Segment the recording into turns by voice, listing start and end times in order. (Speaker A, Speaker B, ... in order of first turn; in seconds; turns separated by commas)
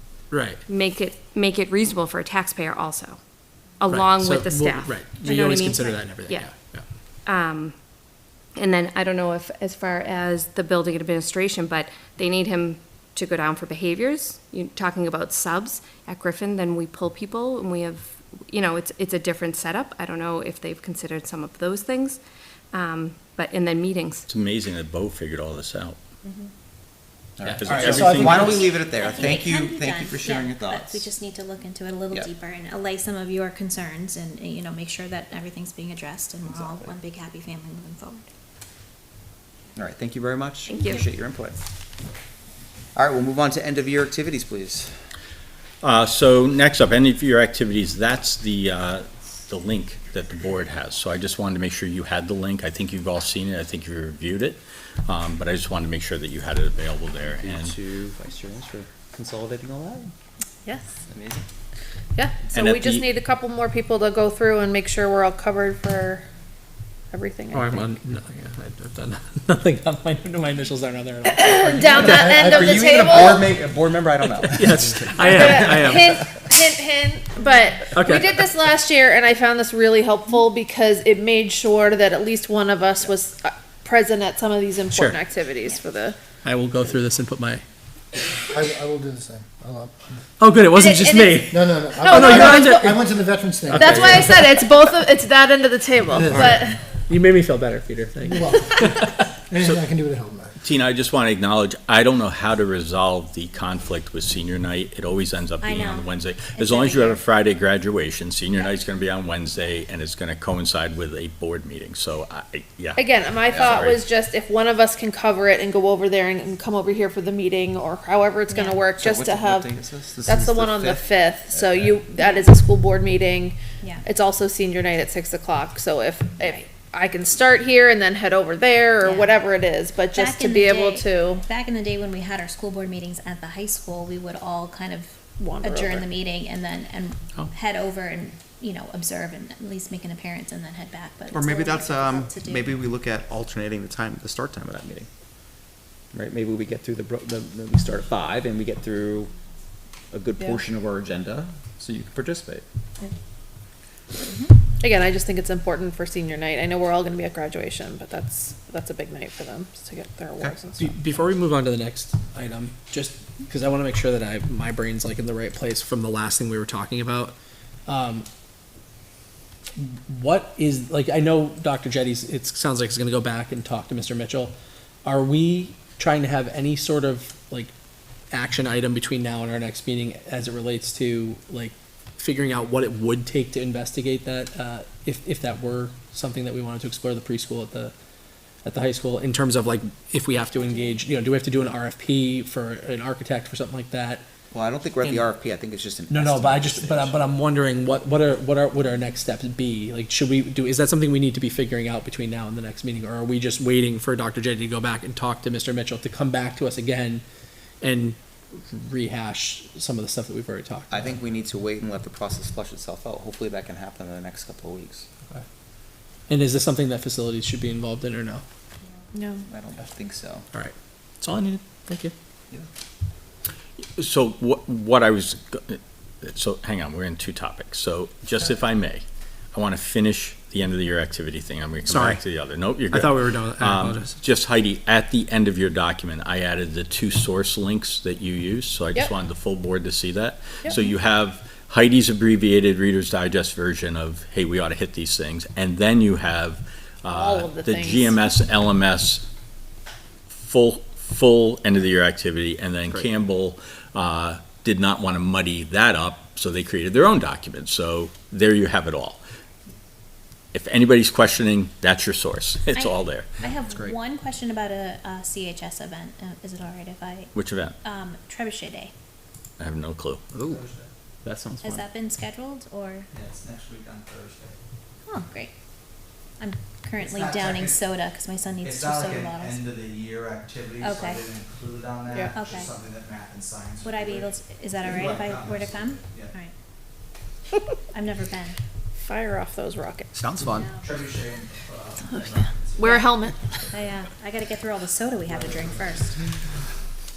Speaker A: 0.3-0.6, Speaker B: 0.7-6.5, Speaker A: 3.9-6.8, Speaker B: 7.2-7.8, Speaker B: 8.5-22.2, Speaker B: 22.7-24.3, Speaker C: 24.3-26.0, Speaker D: 27.4-31.1, Speaker A: 27.5-28.6, Speaker C: 27.6-28.6, Speaker E: 28.4-38.2, Speaker D: 36.5-37.0, Speaker D: 39.7-41.6, Speaker B: 40.7-41.0, Speaker D: 43.0-44.9, Speaker C: 45.8-57.8, Speaker D: 57.4-60.1, Speaker F: 60.6-60.9, Speaker D: 61.1-61.4, Speaker F: 62.2-66.2, Speaker C: 62.5-63.1, Speaker F: 67.1-67.8, Speaker A: 67.5-72.2, Speaker F: 71.2-73.4, Speaker G: 72.0-73.5, Speaker D: 72.5-74.8, Speaker A: 74.2-76.4, Speaker F: 75.0-86.2, Speaker A: 77.9-78.5, Speaker A: 84.9-85.2, Speaker A: 86.4-87.6, Speaker G: 88.5-90.0, Speaker A: 90.4-93.2, Speaker F: 90.7-92.9, Speaker G: 91.5-94.3, Speaker A: 93.7-94.7, Speaker F: 93.7-96.8, Speaker G: 96.2-96.5, Speaker A: 96.9-99.2, Speaker G: 98.3-98.8, Speaker G: 99.4-100.5, Speaker C: 100.6-114.0, Speaker E: 105.6-107.2, Speaker F: 113.0-119.7, Speaker E: 118.5-118.8, Speaker D: 118.9-122.0, Speaker F: 120.2-131.4, Speaker E: 122.2-122.5, Speaker E: 129.0-129.3, Speaker E: 130.1-142.7, Speaker F: 135.4-136.1, Speaker D: 141.3-145.1, Speaker D: 146.1-149.3, Speaker D: 150.1-152.7, Speaker E: 154.2-154.5, Speaker F: 154.8-161.0, Speaker A: 160.8-167.3, Speaker A: 167.9-168.2, Speaker A: 169.8-174.5, Speaker A: 175.0-177.7, Speaker A: 178.3-187.9, Speaker A: 188.6-194.2, Speaker E: 190.3-191.0, Speaker D: 194.5-197.2, Speaker A: 196.1-207.2, Speaker A: 207.8-211.2, Speaker D: 210.9-215.1, Speaker A: 216.3-218.4, Speaker F: 219.1-219.4, Speaker D: 219.5-220.4, Speaker A: 220.5-222.1, Speaker C: 224.0-249.2, Speaker A: 231.8-232.2, Speaker A: 232.9-234.2, Speaker F: 247.1-248.2, Speaker C: 250.3-259.2, Speaker C: 260.5-263.3, Speaker E: 262.7-267.3, Speaker D: 263.4-264.0, Speaker C: 267.3-267.8, Speaker E: 267.8-268.9, Speaker C: 269.6-270.2, Speaker D: 270.3-270.6, Speaker H: 270.5-270.9, Speaker D: 271.2-271.9, Speaker E: 271.6-273.1, Speaker H: 273.1-274.6, Speaker E: 275.1-275.5, Speaker E: 276.4-279.6, Speaker H: 277.0-277.8, Speaker H: 278.6-284.3, Speaker E: 280.8-281.3, Speaker F: 282.1-282.4, Speaker E: 282.3-282.7, Speaker E: 283.8-286.5, Speaker H: 284.8-286.3, Speaker E: 287.9-288.6, Speaker F: 289.0-290.1, Speaker D: 290.1-290.8, Speaker E: 290.5-290.8, Speaker H: 290.8-292.8, Speaker F: 292.1-293.4, Speaker E: 292.8-293.1, Speaker E: 293.7-296.1, Speaker H: 295.3-295.8